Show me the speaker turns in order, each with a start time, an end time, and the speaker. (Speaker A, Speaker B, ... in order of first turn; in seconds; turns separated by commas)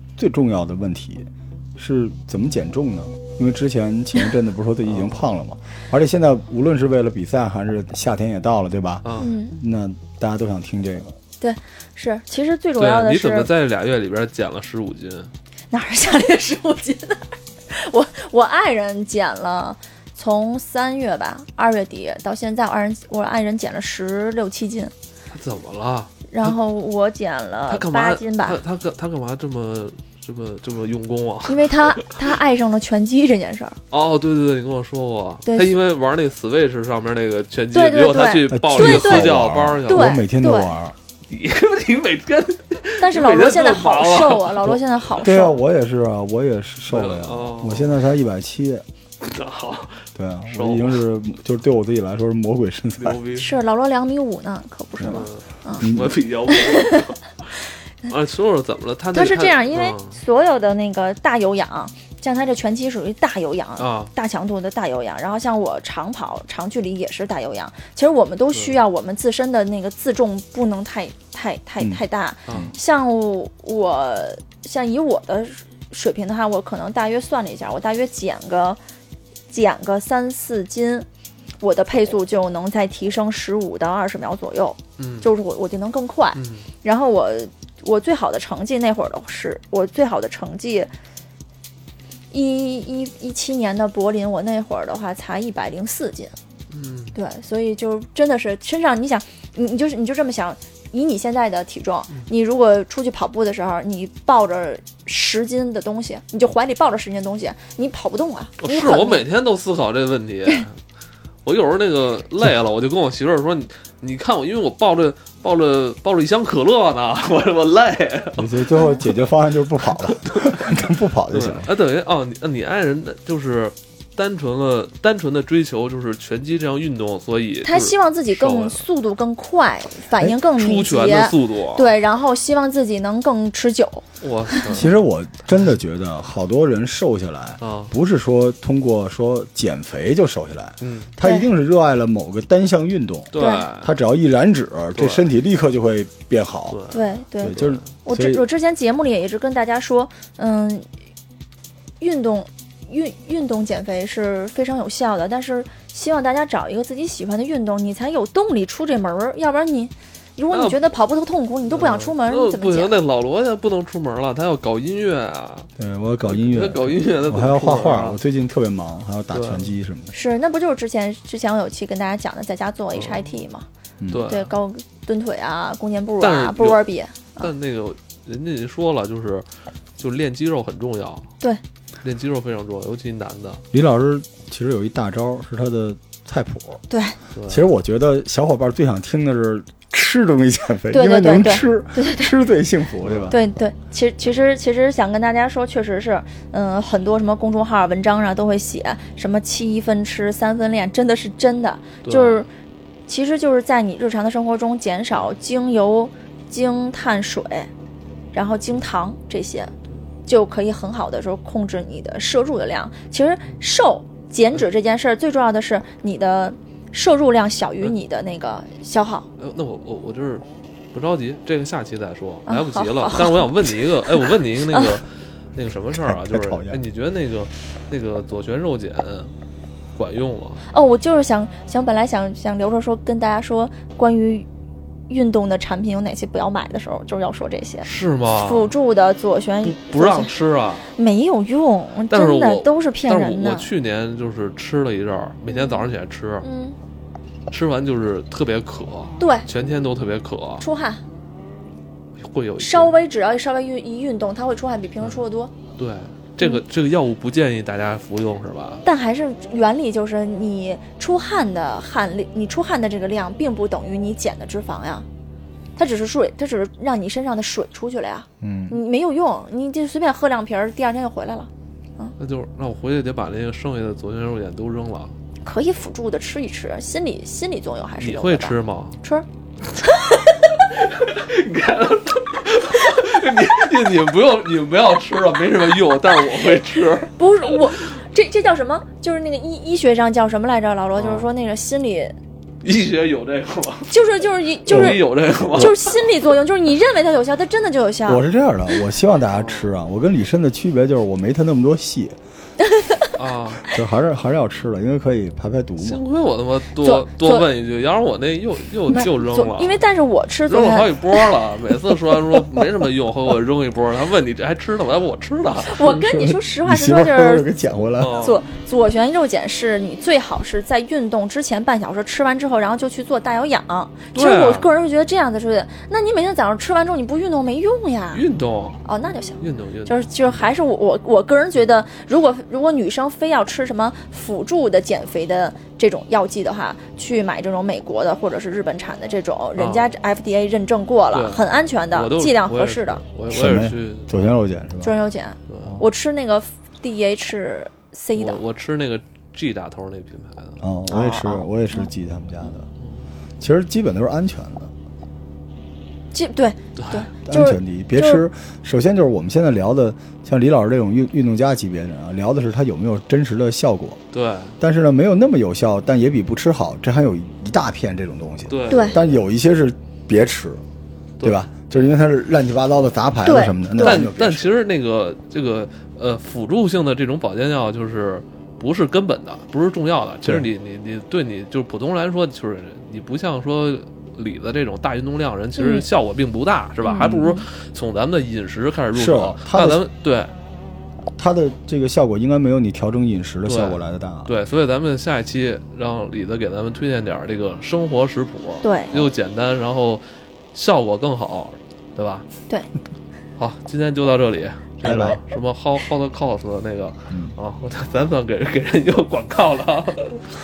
Speaker A: 0.2-9.1, Speaker B: 4.9-5.2, Speaker B: 9.0-9.3, Speaker C: 9.2-9.6, Speaker A: 9.6-11.1, Speaker C: 11.4-13.5, Speaker B: 12.8-15.3, Speaker C: 15.7-24.9, Speaker B: 25.3-26.6, Speaker C: 26.3-28.6, Speaker B: 27.7-32.1, Speaker C: 31.5-33.8, Speaker B: 33.9-40.2, Speaker C: 35.5-35.8, Speaker C: 37.7-39.3, Speaker A: 38.5-41.0, Speaker C: 39.9-40.7, Speaker B: 41.3-45.3, Speaker C: 43.0-45.6, Speaker A: 45.2-48.8, Speaker B: 46.9-48.0, Speaker B: 49.2-51.0, Speaker A: 50.2-53.2, Speaker B: 53.0-53.5, Speaker C: 53.4-55.9, Speaker A: 55.0-55.2, Speaker B: 55.1-60.2, Speaker A: 55.8-56.1, Speaker C: 56.5-57.0, Speaker C: 59.1-78.8, Speaker B: 63.8-64.1, Speaker B: 68.5-68.8, Speaker B: 72.5-72.7, Speaker C: 79.5-81.1, Speaker C: 81.6-90.9, Speaker B: 85.0-85.3, Speaker B: 86.3-86.7, Speaker C: 92.3-96.3, Speaker B: 96.7-97.2, Speaker C: 97.2-109.2, Speaker B: 108.6-110.8, Speaker B: 111.5-118.7, Speaker A: 118.4-121.7, Speaker C: 118.8-119.1, Speaker B: 119.9-128.8, Speaker C: 127.6-134.9, Speaker B: 130.4-131.9, Speaker B: 134.2-134.9, Speaker A: 134.7-146.8, Speaker B: 135.5-135.8, Speaker B: 137.6-137.9, Speaker B: 140.8-141.1, Speaker C: 141.2-141.5, Speaker B: 143.3-143.9, Speaker C: 143.4-143.7, Speaker B: 144.9-145.3, Speaker B: 146.7-147.9, Speaker C: 146.9-150.9, Speaker A: 147.4-148.4, Speaker C: 152.0-163.0, Speaker B: 160.5-160.8, Speaker B: 161.7-165.7, Speaker A: 165.8-170.1, Speaker B: 166.3-168.2, Speaker B: 169.3-169.7, Speaker C: 170.1-173.7, Speaker B: 172.9-173.3, Speaker A: 174.0-174.3, Speaker B: 174.1-174.5, Speaker C: 174.3-177.5, Speaker B: 176.2-181.3, Speaker B: 182.0-183.6, Speaker A: 183.7-186.8, Speaker C: 186.9-187.2, Speaker B: 187.3-187.7, Speaker A: 187.5-193.4, Speaker C: 190.9-192.3, Speaker B: 193.0-193.3, Speaker C: 193.3-202.5, Speaker B: 202.0-202.5, Speaker C: 203.1-207.7, Speaker C: 208.3-209.7, Speaker C: 210.3-219.3, Speaker B: 219.4-229.3, Speaker C: 222.5-225.0, Speaker A: 225.9-226.8, Speaker B: 229.9-230.7, Speaker C: 230.7-234.5, Speaker C: 235.1-240.3, Speaker B: 237.8-238.7, Speaker B: 239.6-240.9, Speaker C: 240.9-243.7, Speaker B: 242.1-246.5, Speaker C: 245.4-245.9, Speaker C: 246.4-246.8, Speaker B: 247.5-250.7, Speaker C: 249.2-249.5, Speaker C: 250.6-251.0, Speaker B: 252.2-252.9, Speaker C: 252.6-255.5, Speaker B: 255.8-258.8, Speaker C: 258.8-265.1, Speaker C: 265.8-272.1, Speaker A: 268.4-268.8, Speaker B: 272.2-275.1, Speaker C: 275.4-280.3, Speaker B: 278.0-279.0, Speaker B: 280.7-287.1, Speaker C: 287.1-292.1, Speaker B: 291.0-291.3, Speaker B: 292.6-293.9, Speaker C: 293.9-298.2, Speaker B: 294.6-295.8, Speaker A: 294.7-295.8, Speaker A: 298.1-302.2, Speaker B: 299.3-299.7, Speaker C: 302.7-303.1, Speaker B: 303.1-303.6, Speaker A: 303.7-306.0, Speaker B: 305.8-309.8, Speaker C: 306.8-307.5, Speaker C: 308.9-311.4, Speaker B: 310.5-316.1, Speaker C: 315.6-317.5, Speaker A: 316.1-318.2, Speaker B: 318.0-318.4, Speaker C: 318.2-328.2, Speaker B: 324.1-324.7, Speaker B: 328.1-328.8, Speaker C: 328.9-343.1, Speaker B: 329.4-330.4, Speaker B: 339.6-339.9, Speaker B: 341.1-344.1, Speaker A: 343.3-344.9, Speaker C: 344.8-348.4, Speaker B: 345.5-345.8, Speaker B: 348.1-350.6, Speaker A: 350.6-352.7, Speaker C: 350.9-351.9, Speaker A: 353.4-354.7, Speaker C: 356.1-358.2, Speaker B: 356.8-357.1, Speaker A: 357.3-364.0, Speaker B: 364.1-364.6, Speaker A: 364.6-370.6, Speaker B: 368.5-369.2, Speaker C: 368.7-369.0, Speaker B: 371.2-371.5, Speaker A: 371.2-374.6, Speaker C: 373.2-373.9, Speaker B: 373.8-390.3, Speaker C: 385.6-385.9, Speaker C: 386.8-387.5, Speaker A: 388.9-389.8, Speaker A: 391.2-394.3, Speaker B: 393.4-400.0, Speaker C: 398.6-398.9, Speaker B: 400.5-402.2, Speaker B: 403.4-410.2, Speaker A: 404.8-405.2